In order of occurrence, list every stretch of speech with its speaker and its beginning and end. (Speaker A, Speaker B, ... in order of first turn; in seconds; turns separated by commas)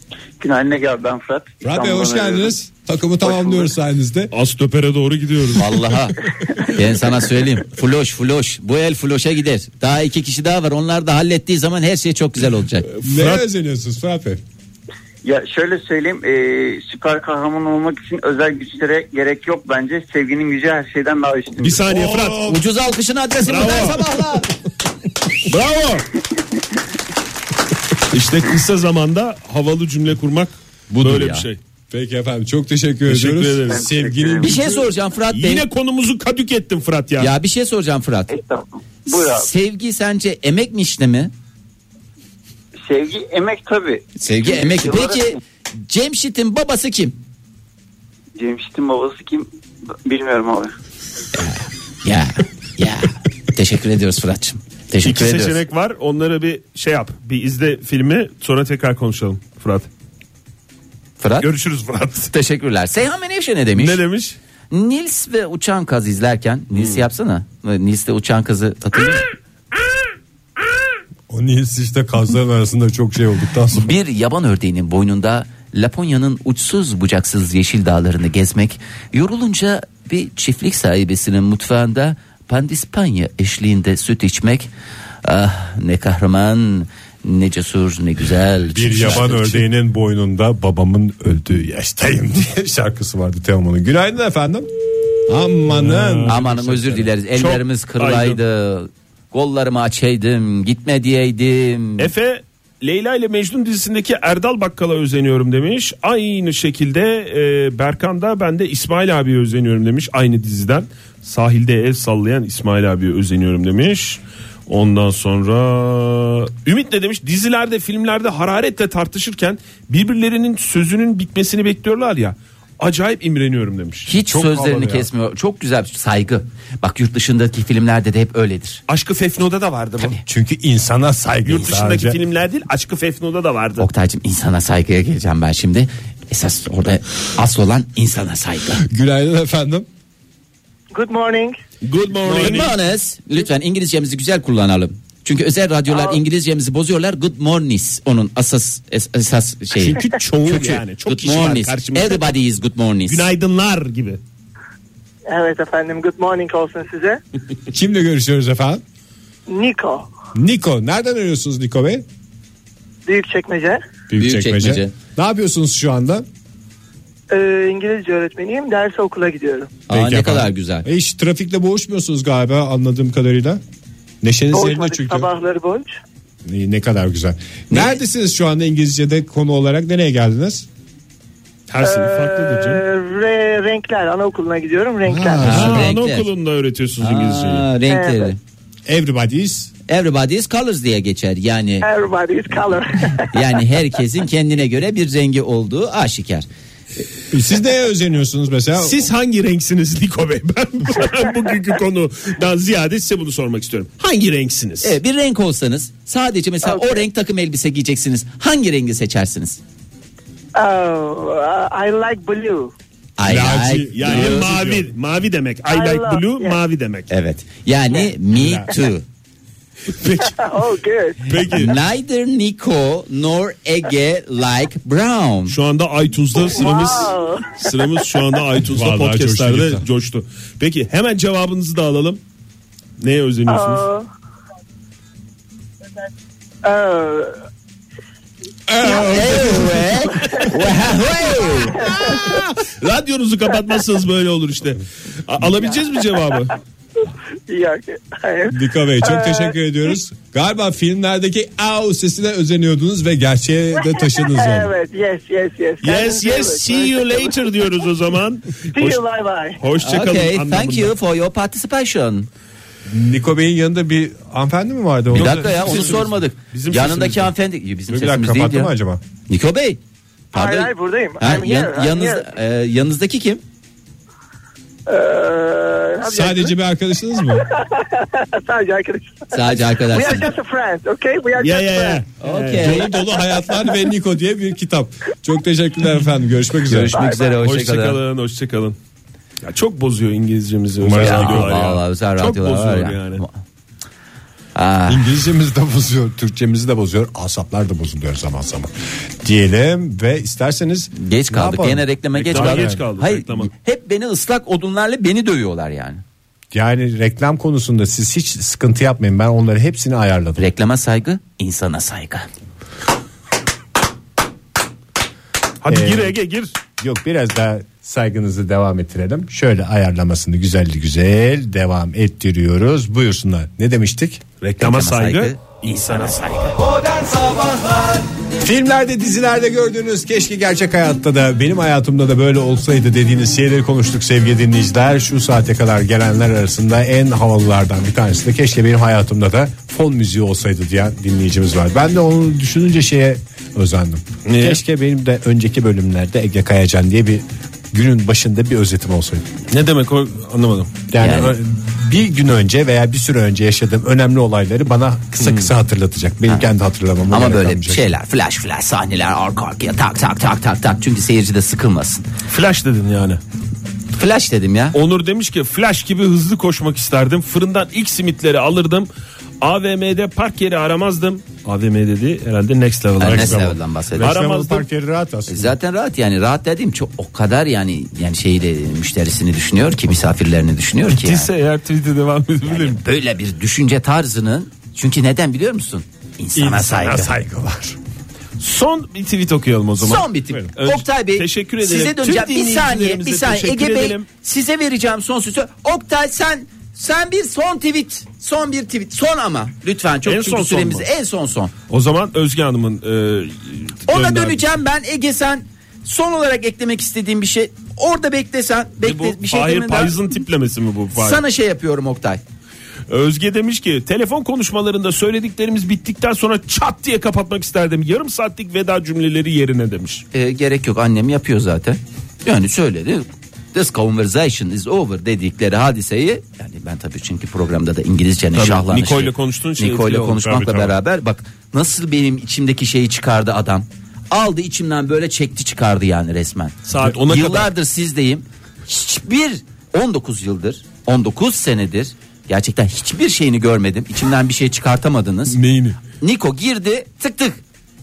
Speaker A: 0.4-2.6, Speaker B: 1.6-4.3, Speaker A: 3.2-3.7, Speaker C: 4.3-6.0, Speaker D: 5.6-12.9, Speaker C: 12.9-13.4, Speaker B: 13.0-14.4, Speaker A: 15.2-21.8, Speaker C: 21.6-22.5, Speaker B: 21.7-22.6, Speaker D: 22.5-24.5, Speaker C: 23.5-24.1, Speaker C: 25.4-26.1, Speaker C: 28.1-31.6, Speaker D: 30.9-31.5, Speaker B: 31.9-34.9, Speaker C: 33.1-33.9, Speaker A: 33.7-34.5, Speaker D: 34.4-35.6, Speaker C: 35.3-37.3, Speaker D: 37.2-38.4, Speaker A: 38.3-39.5, Speaker D: 39.1-41.3, Speaker A: 42.8-45.4, Speaker D: 44.2-47.2, Speaker A: 48.4-49.5, Speaker A: 50.0-50.8, Speaker D: 51.4-55.6, Speaker C: 55.0-59.9, Speaker D: 61.2-61.5, Speaker C: 61.4-62.3, Speaker D: 62.3-64.0, Speaker C: 63.8-64.4, Speaker D: 64.7-69.2, Speaker C: 66.7-67.0, Speaker B: 71.3-73.9, Speaker D: 73.8-84.7, Speaker D: 85.2-89.6, Speaker B: 88.7-94.7, Speaker B: 95.3-97.0, Speaker C: 95.7-98.4, Speaker D: 96.3-102.1, Speaker C: 102.0-124.1, Speaker D: 124.1-128.8, Speaker B: 124.2-125.1, Speaker C: 128.9-130.2, Speaker B: 130.2-132.2, Speaker C: 131.5-133.9, Speaker D: 133.8-138.8, Speaker B: 138.9-139.9, Speaker E: 140.9-141.6, Speaker C: 141.8-142.8, Speaker D: 142.2-153.3, Speaker E: 145.9-146.2, Speaker C: 149.8-152.3, Speaker C: 153.1-154.2, Speaker E: 155.3-157.2, Speaker B: 157.7-158.8, Speaker E: 159.5-160.1, Speaker B: 160.3-162.1, Speaker E: 163.1-163.8, Speaker B: 164.1-166.2, Speaker D: 164.2-164.9, Speaker E: 167.3-169.7, Speaker D: 169.9-170.8, Speaker B: 169.9-173.6, Speaker B: 174.2-175.3, Speaker E: 174.5-176.0, Speaker B: 176.5-180.7, Speaker D: 177.7-178.0, Speaker C: 181.7-182.8, Speaker E: 181.8-185.5, Speaker B: 185.1-185.9, Speaker D: 185.4-186.3, Speaker C: 185.4-187.7, Speaker D: 187.0-188.4, Speaker E: 187.9-188.3, Speaker B: 188.9-189.7, Speaker D: 189.9-191.9, Speaker E: 191.8-193.7, Speaker D: 193.3-196.5, Speaker B: 197.3-199.0, Speaker C: 198.8-205.0, Speaker D: 204.8-209.6, Speaker E: 206.6-207.1, Speaker E: 210.6-212.7, Speaker D: 213.2-214.4, Speaker B: 213.2-214.9, Speaker C: 213.9-217.1, Speaker E: 215.7-216.6, Speaker D: 217.1-219.1, Speaker B: 218.3-218.7, Speaker C: 220.0-220.3, Speaker E: 220.2-221.7, Speaker C: 221.3-221.7, Speaker D: 221.5-225.6, Speaker C: 225.5-232.2, Speaker E: 226.4-227.6, Speaker B: 228.7-229.8, Speaker C: 233.0-233.9, Speaker E: 233.5-234.1, Speaker E: 236.6-237.3, Speaker B: 238.7-239.8, Speaker D: 238.9-241.8, Speaker C: 239.2-239.6, Speaker E: 239.9-242.4, Speaker C: 241.9-246.5, Speaker E: 245.5-246.4, Speaker E: 247.5-249.9, Speaker B: 248.5-254.7, Speaker E: 253.8-257.8, Speaker C: 255.8-259.0, Speaker E: 258.7-259.6, Speaker C: 259.6-260.9, Speaker D: 259.8-262.3, Speaker B: 262.9-265.9, Speaker C: 265.1-267.3, Speaker D: 265.1-268.7, Speaker B: 267.9-269.0, Speaker D: 269.3-269.8, Speaker E: 270.3-272.3, Speaker D: 270.3-273.4, Speaker E: 274.9-276.5, Speaker B: 276.0-277.4, Speaker E: 277.3-282.1, Speaker D: 279.3-280.3, Speaker C: 281.4-282.9, Speaker D: 282.2-282.9, Speaker B: 282.6-287.0, Speaker E: 283.0-283.9, Speaker D: 286.7-288.0, Speaker E: 287.0-287.3, Speaker C: 287.1-288.8, Speaker C: 289.4-293.2, Speaker B: 290.8-291.5, Speaker D: 291.0-293.4, Speaker D: 294.6-295.1, Speaker B: 294.9-302.8, Speaker D: 300.9-306.0, Speaker C: 302.1-303.5, Speaker B: 306.5-310.4, Speaker D: 310.4-312.3, Speaker C: 315.6-316.5, Speaker B: 315.7-316.2, Speaker B: 316.8-324.3, Speaker C: 324.5-326.5, Speaker D: 324.6-326.6, Speaker B: 328.4-349.3, Speaker C: 344.3-344.6, Speaker C: 349.5-350.7, Speaker B: 350.9-357.9, Speaker D: 351.0-351.4, Speaker C: 355.2-355.5, Speaker D: 357.1-362.1, Speaker C: 362.3-363.2, Speaker D: 363.9-364.8, Speaker C: 364.7-368.9, Speaker C: 369.4-374.7, Speaker D: 373.0-374.2, Speaker B: 373.0-375.5, Speaker D: 375.3-381.3, Speaker C: 380.9-382.8, Speaker D: 382.4-387.1, Speaker B: 386.4-387.8, Speaker C: 388.4-394.1, Speaker D: 389.8-401.5, Speaker C: 400.1-400.9, Speaker C: 401.7-404.4, Speaker D: 403.9-410.0, Speaker C: 408.8-411.2, Speaker D: 410.9-412.2, Speaker C: 412.9-420.1, Speaker D: 420.1-445.4, Speaker C: 428.4-430.4, Speaker B: 430.3-430.7, Speaker C: 436.7-437.5, Speaker B: 445.3-445.8, Speaker D: 446.0-447.4